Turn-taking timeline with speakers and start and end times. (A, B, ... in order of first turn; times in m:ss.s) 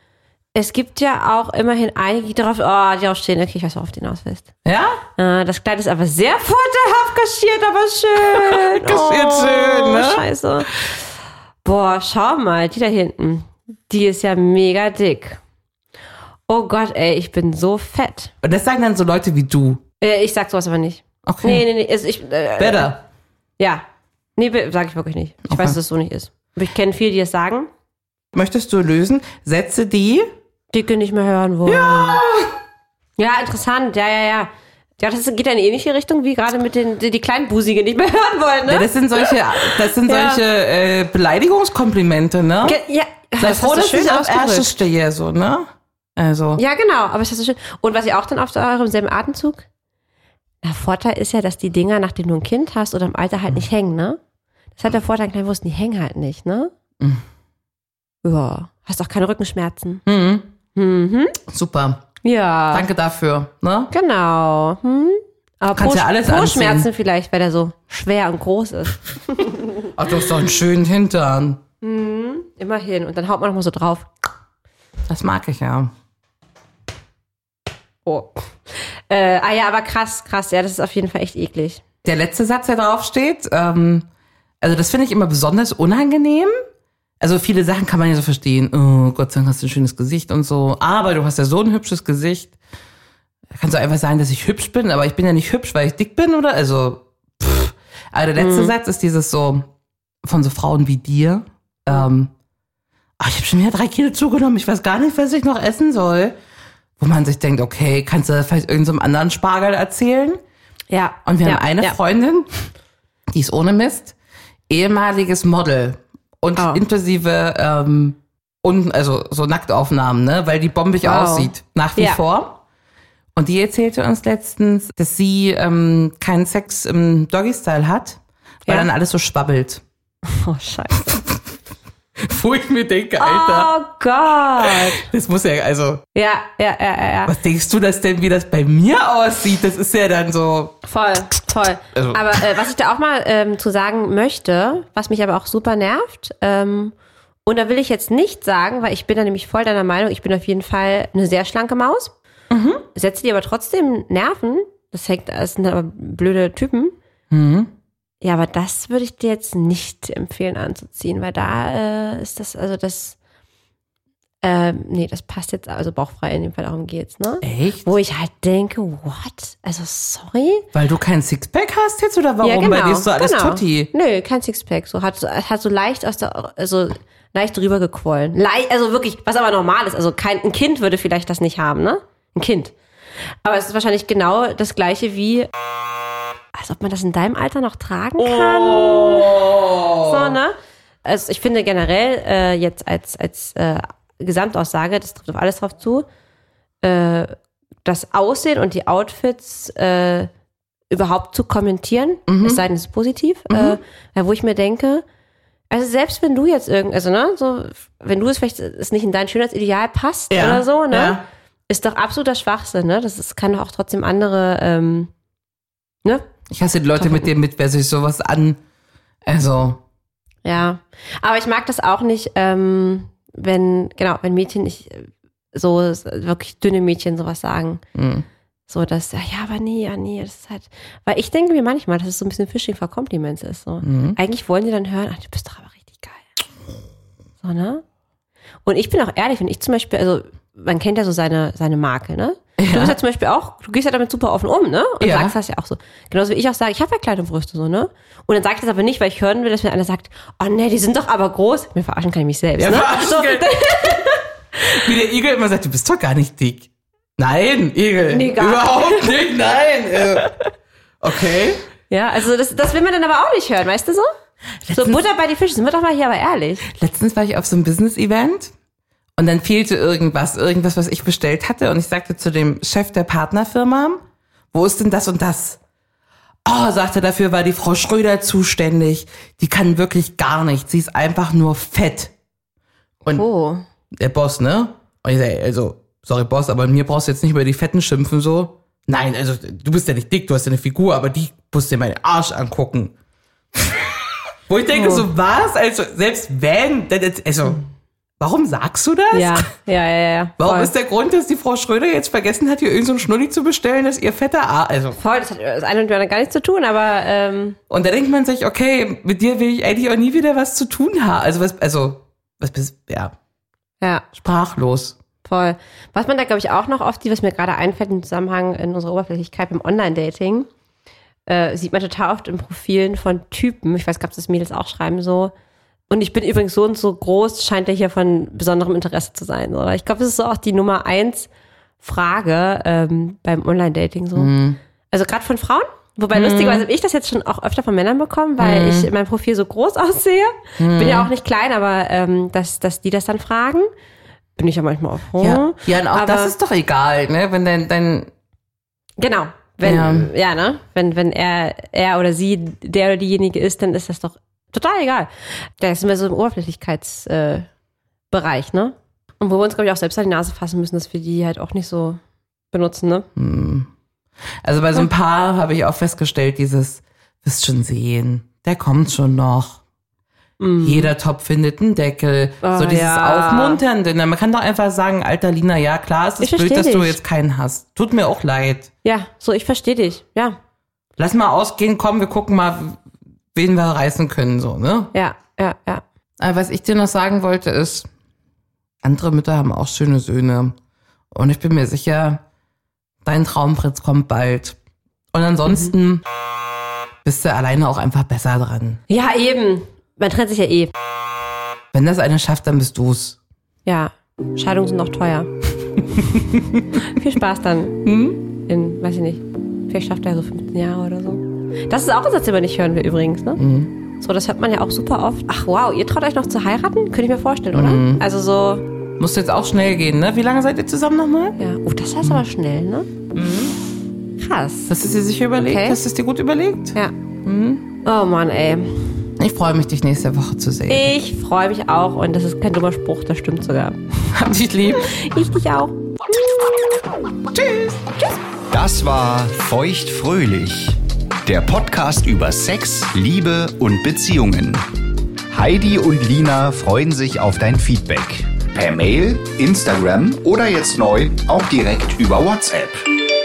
0:00.6-0:04.5 A
0:04.6-0:05.0 B
0:05.2-0:11.1 A
0:08.3-0:10.2 B
0:11.6-0:15.4 A
0:16.5-0:18.3 A
0:18.4-0:19.8 B
0:20.0-0:23.0 A
0:21.3-0:21.7 B
0:22.6-0:23.0 B
0:23.6-0:23.8 A
0:24.4-0:27.7 A
0:25.5-0:25.8 B
0:28.3-0:30.3 B
0:30.7-0:32.2 A
0:31.7-0:32.6 B
0:33.2-0:40.4 A
0:38.7-0:42.8 B
0:42.6-0:44.7 A
0:43.4-0:46.6 B
0:46.6-0:49.7 A
0:50.6-0:54.2 A
0:54.8-0:56.7 A
0:58.2-1:00.0 A
1:00.0-1:00.5 B
1:00.7-1:01.4 A
1:01.5-1:02.1 B
1:02.2-1:02.9 A
1:02.7-1:03.9 B
1:03.9-1:09.9 A
1:05.7-1:06.9 B
1:09.9-1:11.6 B
1:11.8-1:14.1 A
1:15.1-1:15.9 B
1:18.1-1:21.8 A
1:22.0-1:24.1 B
1:24.6-1:26.6 B
1:27.2-1:32.6 B
1:33.6-1:39.7 B
1:38.4-1:38.7 A
1:40.2-1:42.3 B
1:43.2-1:46.4 B
1:47.0-1:50.4 B
1:50.9-1:52.0 A
1:51.2-1:52.7 B
1:53.3-1:54.2 B
1:54.7-2:02.6 B
1:56.6-1:56.8 A
2:01.0-2:02.2 A
2:03.4-2:09.8 B
2:10.2-2:11.2 A
2:12.2-2:13.7 B
2:13.2-2:15.1 A
2:14.6-2:16.0 B
2:16.1-2:17.3 A
2:17.3-2:20.8 B
2:20.8-2:27.0 A
2:22.0-2:22.4 B
2:27.5-2:32.1 A
2:32.5-2:32.8 B
2:32.9-2:37.0 A
2:37.3-2:37.7 B
2:38.2-2:43.2 A
2:44.4-2:50.7 A
2:47.4-2:47.9 B
2:50.7-2:53.9 B
2:52.4-3:02.8 A
3:03.3-3:05.5 A
3:06.5-3:16.1 A
3:08.2-3:10.4 B
3:16.8-3:20.3 A
3:20.9-3:25.0 A
3:22.3-3:22.6 B
3:23.5-3:23.8 B
3:25.7-3:35.1 A
3:30.3-3:31.2 B
3:36.5-3:38.6 B
3:37.0-3:37.3 A
3:39.3-3:39.8 B
3:40.4-3:47.8 A
3:48.0-3:48.3 B
3:48.7-3:56.3 A
3:53.8-3:54.2 B
3:57.4-3:57.8 A
3:58.6-4:14.7 A
4:02.6-4:03.0 B
4:05.0-4:05.4 B
4:12.6-4:14.0 B
4:14.6-4:20.3 B
4:18.1-4:19.2 A
4:21.0-4:21.6 B
4:21.9-4:24.1 A
4:24.7-4:25.0 B
4:24.7-4:26.6 A
4:26.7-4:28.5 B
4:29.2-4:34.0 B
4:34.5-4:35.6 B
4:36.5-4:42.1 B
4:43.1-4:43.6 A
4:44.0-4:52.9 B
4:53.6-4:53.9 B
4:54.5-4:57.6 B
4:54.7-4:55.1 A
4:58.2-4:59.5 B
4:59.1-5:00.7 A
5:00.4-5:05.0 B
5:05.0-5:07.6 A
5:07.7-5:13.1 B
5:13.8-5:14.1 A
5:14.1-5:15.0 B
5:15.2-5:20.5 A
5:21.3-5:25.3 A
5:25.9-5:31.3 A
5:31.8-5:34.3 A
5:34.2-5:34.6 B
5:34.9-5:43.7 A
5:36.1-5:36.6 B
5:38.4-5:38.9 B
5:40.6-5:41.1 B
5:44.4-5:46.3 A
5:45.2-5:48.1 B
5:49.0-5:57.5 A
5:49.6-5:50.1 B
5:58.1-6:03.1 A
6:03.2-6:03.7 B
6:04.4-6:09.6 B
6:10.4-6:10.9 A
6:10.6-6:18.7 B
6:12.4-6:13.6 A
6:16.2-6:17.0 A
6:18.8-6:20.4 A
6:21.0-6:22.8 B
6:23.3-6:24.9 B
6:24.9-6:25.8 A
6:26.2-6:27.9 B
6:28.8-6:30.6 B
6:31.1-6:32.2 B
6:33.0-6:34.6 B
6:35.1-6:36.0 B
6:35.5-6:35.7 A
6:37.0-6:38.8 B
6:38.9-6:40.7 A
6:41.7-6:43.2 B
6:43.6-6:45.3 A
6:45.9-6:46.8 B
6:46.8-6:47.8 A
6:47.8-6:48.2 B
6:48.5-6:53.4 A
6:53.4-6:53.7 B
6:54.0-6:58.7 A
6:57.5-6:58.0 B
6:59.0-7:01.4 B
7:01.4-7:02.9 A
7:03.1-7:03.6 B
7:04.2-7:04.7 A
7:04.7-7:07.6 B
7:05.4-7:05.8 A
7:07.8-7:09.1 A
7:09.2-7:10.9 B
7:10.7-7:13.8 A
7:14.1-7:15.0 B
7:14.7-7:15.8 A
7:17.3-7:17.8 B
7:18.5-7:24.6 C
7:25.3-7:32.9 C